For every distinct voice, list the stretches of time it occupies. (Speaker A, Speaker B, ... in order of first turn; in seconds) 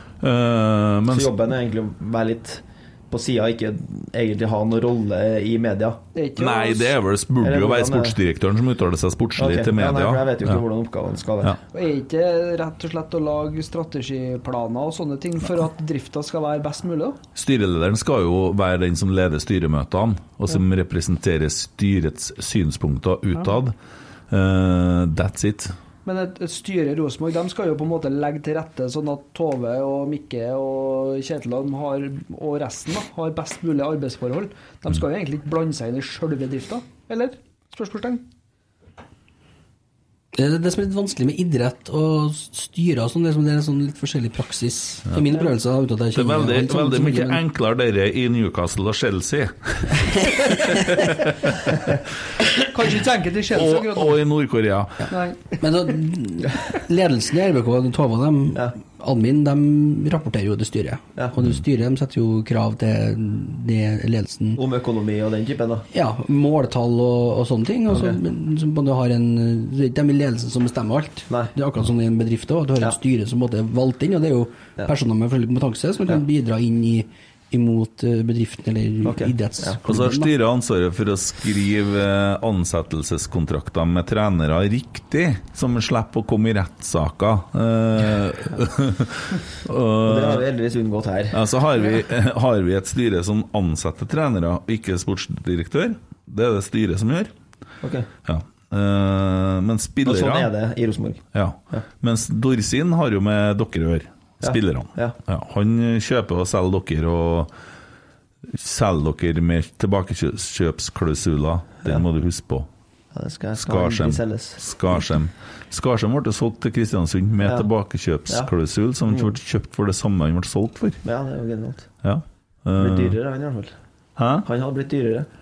Speaker A: 0.2-1.3, 6.3-10.6, 17.4-23.7, 24.3-25.7, 46.1-51.7, 53.5-55.0, 79.8-90.5, 91.3-97.3, 98.2-100.5, 101.3-107.5, 108.5-112.7, 113.5-121.0, 122.0-123.2, 124.2-124.5
Speaker B: 1.1-6.0, 7.4-8.2, 9.4-11.6, 64.5-65.8, 67.9-68.2, 79.0-79.8, 90.0-91.4, 97.8-98.1, 100.0-101.8, 104.4-105.2, 113.1-114.6, 119.1-119.3, 121.0-121.9, 122.8-123.7, 124.4-125.3
Speaker C: 6.1-6.9, 11.7-17.2, 26.0-38.2, 52.5-54.2, 55.1-55.6
Speaker D: 40.3-47.4, 50.4-50.8, 55.6-64.6, 65.9-80.3